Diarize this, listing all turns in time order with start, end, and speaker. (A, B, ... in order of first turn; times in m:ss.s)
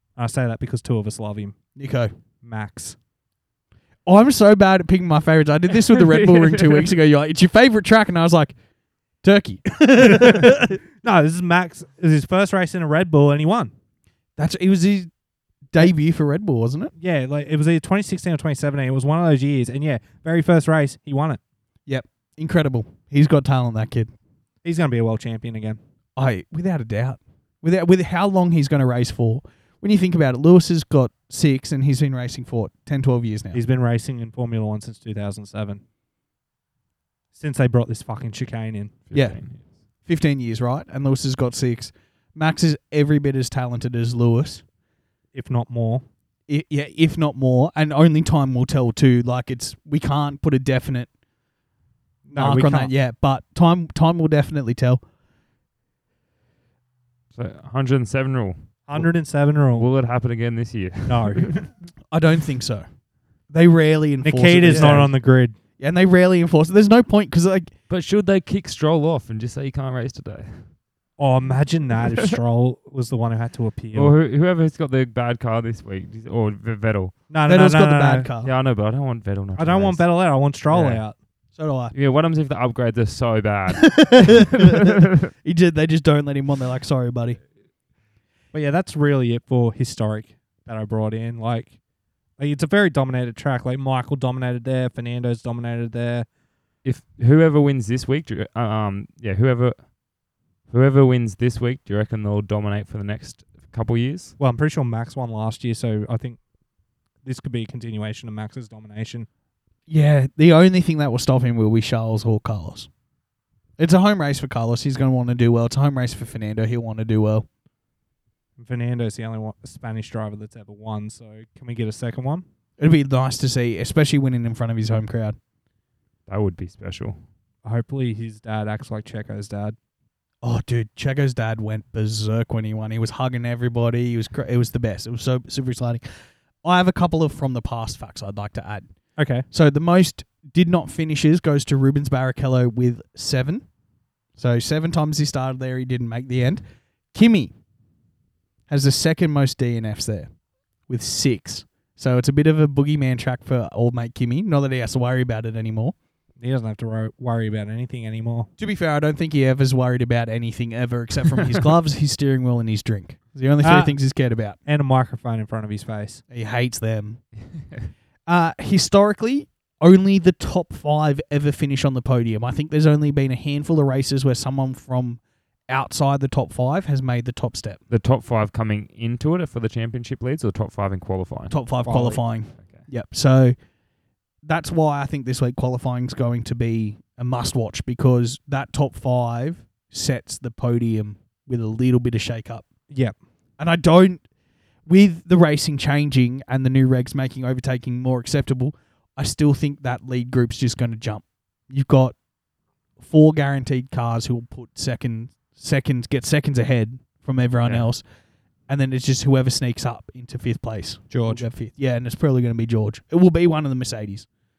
0:00.2-0:01.5 A
0:01.8-0:02.1 B
0:02.4-0:03.0 A
0:04.0-0:08.5 B
0:05.9-0:06.9 C
0:09.2-0:10.8 B
0:10.0-0:13.7 A
0:14.4-0:15.1 B
0:15.7-0:16.9 B
0:17.0-0:21.4 A
0:21.9-0:24.1 B
0:24.6-0:25.8 A
0:26.2-0:33.6 B
0:33.5-0:35.8 A
0:37.3-0:39.0 A
0:39.1-0:39.7 C
0:39.1-0:39.4 B
0:40.0-0:44.6 B
0:45.3-0:46.0 A
0:46.5-0:51.1 B
0:52.3-0:52.9 A
0:52.3-0:55.0 B
0:57.3-0:59.1 C
0:58.9-0:59.8 A
0:59.7-1:01.7 C
1:01.0-1:01.6 A
1:02.1-1:02.8 B
1:03.5-1:05.1 B
1:04.2-1:05.5 A
1:04.7-1:05.0 C
1:05.8-1:07.7 B
1:07.9-1:10.8 C
1:11.2-1:14.1 A
1:13.9-1:17.1 C
1:17.3-1:18.3 A
1:17.4-1:18.5 B
1:18.4-1:21.0 C
1:19.6-1:21.2 A
1:21.5-1:21.9 B
1:21.9-1:25.0 C
1:23.8-1:27.4 B
1:28.5-1:31.7 A
1:32.4-1:36.2 A
1:36.8-1:39.9 C
1:40.7-1:44.4 C
1:44.4-1:46.4 A
1:47.2-1:49.3 A
1:49.9-1:52.9 B
1:53.8-1:57.4 B
1:58.6-2:02.4 A
2:02.8-2:05.4 B
2:06.3-2:07.2 C
2:07.6-2:09.8 A
2:10.4-2:16.0 B
2:16.6-2:18.8 B
2:19.2-2:19.4 A
2:19.5-2:23.6 B
2:24.4-2:27.5 B
2:28.7-2:30.3 B
2:30.9-2:35.9 B
2:36.4-2:38.5 A
2:38.6-2:44.6 B
2:43.6-2:44.0 A
2:44.6-2:46.2 A
2:46.3-2:47.2 B
2:48.3-2:57.8 B
2:57.9-3:01.6 C
3:01.5-3:03.6 B
3:01.8-3:02.2 A
3:02.6-3:02.9 C
3:04.4-3:12.6 B
3:12.9-3:13.2 A
3:13.6-3:14.2 B
3:14.9-3:22.1 B
3:23.0-3:28.0 B
3:28.7-3:34.3 B
3:31.1-3:31.5 A